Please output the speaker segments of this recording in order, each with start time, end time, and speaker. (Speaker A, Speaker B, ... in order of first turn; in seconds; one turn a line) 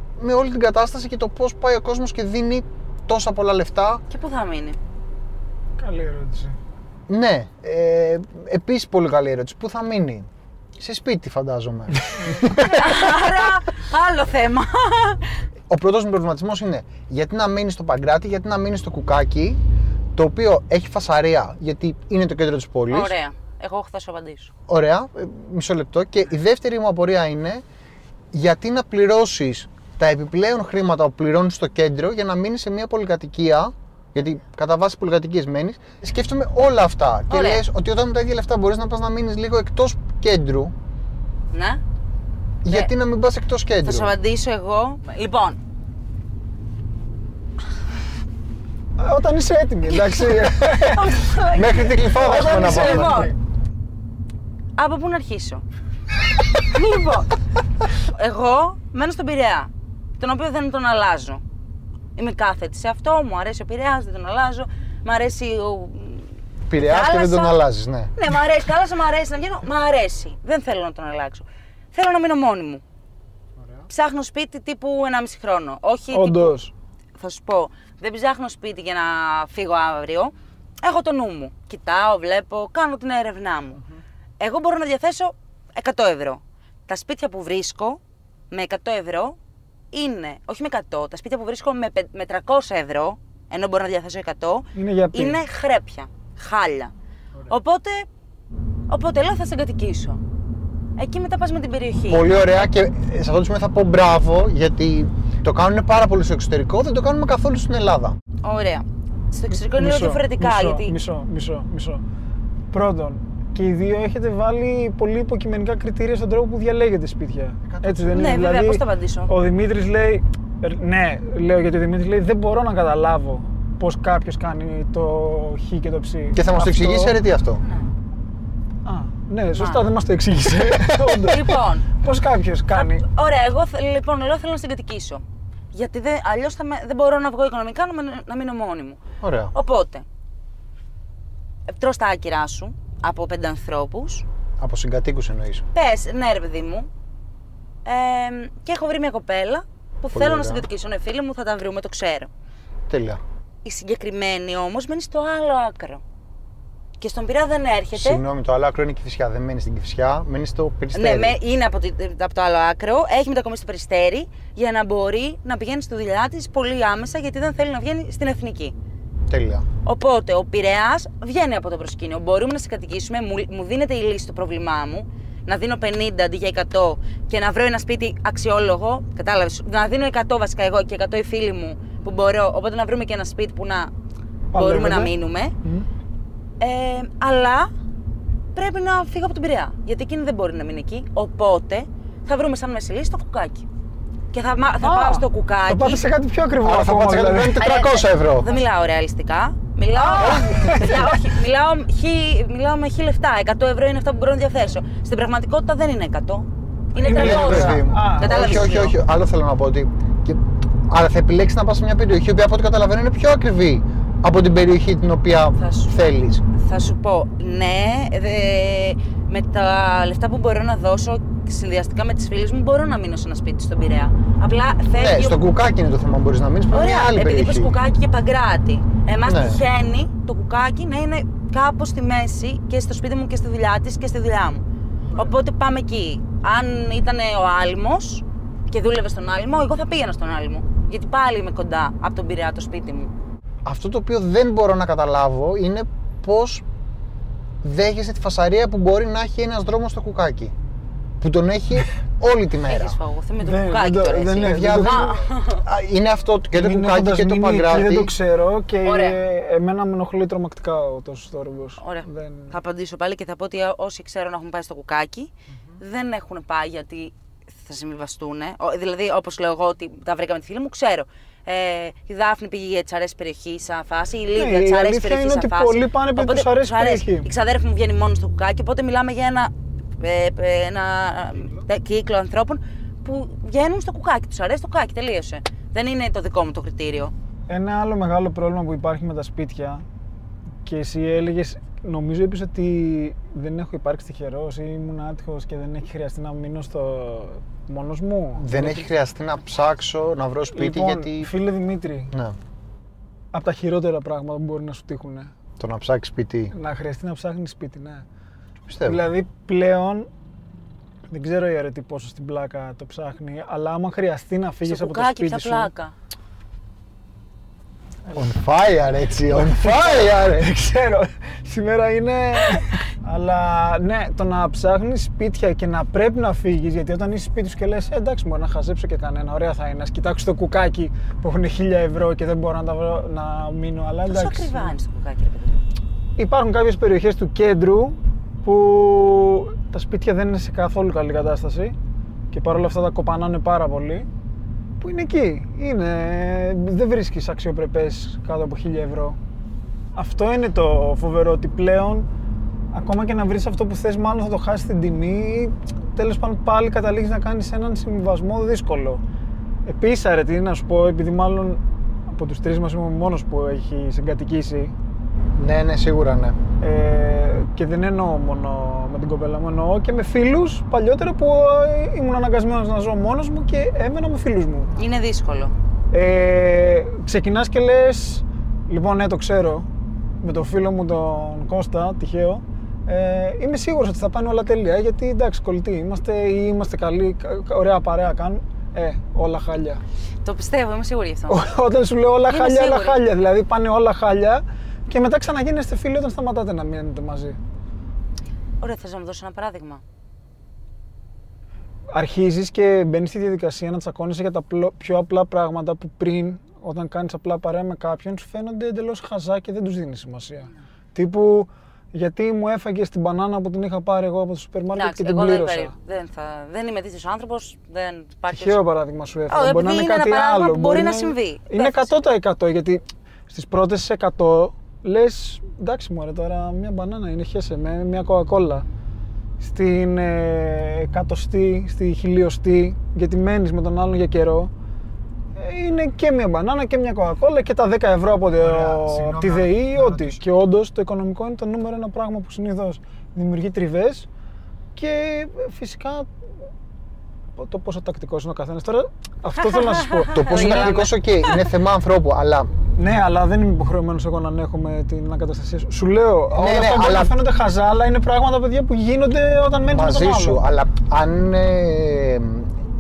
Speaker A: 0.2-4.0
Speaker B: 4.1-4.8
Speaker C: 5.8-6.6
Speaker A: 7.1-13.3
Speaker B: 12.6-15.3
Speaker A: 15.7-19.6
Speaker A: 20.1-23.1
Speaker B: 22.9-24.5
Speaker A: 24.7-27.6
Speaker A: 28.3-40.7
Speaker B: 37.3-37.6
Speaker B: 41.5-41.8
Speaker A: 42.6-44.1
Speaker B: 43.8-45.6
Speaker C: 49.0-51.4
Speaker B: 49.9-53.4
Speaker A: 51.5-53.3
Speaker C: 52.1-53.3
Speaker B: 54.8-55.6
Speaker B: 56.6-57.3
Speaker B: 58.0-61.4
Speaker B: 62.2-67.6
Speaker A: 66.7-68.1
Speaker B: 68.2-72.8
Speaker B: 73.9-76.5
Speaker C: 76.1-76.7
Speaker B: 77.2-83.8
Speaker B: 84.4-88.0
Speaker B: 88.5-89.4
Speaker B: 89.9-96.9
Speaker C: 94.8-95.4
Speaker B: 97.5-98.1
Speaker B: 98.9-100.2
Speaker B: 101.0-102.3
Speaker A: 102.1-108.2
Speaker B: 108.4-110.9
Speaker C: 109.5-112.0
Speaker C: 112.7-127.2
Speaker A: 117.7-118.5
Speaker B: 118.1-119.3
Speaker A: 126.3-127.6
Speaker C: 128.8-133.1
Speaker B: 129.6-129.9
Speaker B: 131.2-131.9
Speaker B: 132.7-139.0
Speaker A: 139.2-139.5
Speaker B: 139.5-140.1
Speaker B: 141.7-144.2
Speaker A: 144.6-145.7
Speaker B: 145.7-146.9
Speaker B: 147.8-152.3
Speaker A: 150.1-150.7
Speaker A: 152.9-153.2
Speaker B: 153.6-156.0
Speaker B: 157.0-158.2
Speaker A: 157.9-161.4
Speaker B: 160.9-168.8
Speaker A: 169.3-169.7
Speaker B: 169.8-183.9
Speaker C: 184.5-185.9
Speaker B: 184.5-185.5
Speaker B: 186.6-187.7
Speaker B: 188.6-193.7
Speaker B: 194.3-196.1
Speaker C: 194.8-197.6
Speaker A: 196.6-198.5
Speaker B: 197.6-208.9
Speaker C: 199.9-201.2
Speaker A: 200.2-200.7
Speaker C: 207.0-208.8
Speaker A: 207.0-216.4
Speaker B: 215.6-216.0
Speaker B: 216.5-225.4
Speaker A: 224.9-227.8
Speaker B: 226.7-234.6
Speaker A: 229.3-229.6
Speaker B: 235.1-243.1
Speaker A: 243.7-246.6
Speaker A: 247.6-250.5
Speaker A: 251.2-253.0
Speaker B: 252.7-255.7
Speaker C: 253.4-255.1
Speaker A: 254.4-258.1
Speaker C: 256.5-262.5
Speaker B: 258.8-259.2
Speaker B: 261.8-287.1
Speaker C: 274.4-277.3
Speaker C: 287.5-289.8
Speaker C: 290.6-298.9
Speaker A: 298.4-301.3
Speaker C: 300.5-302.1
Speaker C: 303.3-305.3
Speaker A: 305.6-306.5
Speaker C: 306.5-308.1
Speaker A: 308.7-309.0
Speaker C: 308.8-310.1
Speaker C: 311.1-315.7
Speaker B: 314.6-315.9
Speaker A: 318.1-320.5
Speaker C: 319.3-334.7
Speaker B: 334.1-335.6
Speaker C: 336.2-341.8
Speaker C: 342.3-344.1
Speaker C: 344.8-349.2
Speaker C: 349.9-352.1
Speaker C: 352.7-359.0
Speaker C: 359.7-364.7
Speaker A: 365.4-366.4
Speaker C: 366.6-374.7
Speaker B: 374.8-375.5
Speaker C: 375.9-379.7
Speaker C: 380.2-389.8
Speaker B: 390.2-391.4
Speaker C: 391.3-397.4
Speaker B: 392.3-393.0
Speaker B: 398.6-399.8
Speaker C: 401.9-415.7
Speaker B: 414.8-418.6
Speaker C: 418.3-428.6
Speaker B: 419.3-421.9
Speaker C: 429.4-434.5
Speaker C: 435.4-444.1
Speaker A: 438.4-440.2
Speaker C: 444.8-446.1
Speaker C: 447.4-450.9
Speaker B: 449.5-451.4
Speaker A: 450.1-452.5
Speaker C: 452.8-460.4
Speaker A: 456.3-457.1
Speaker A: 459.7-462.5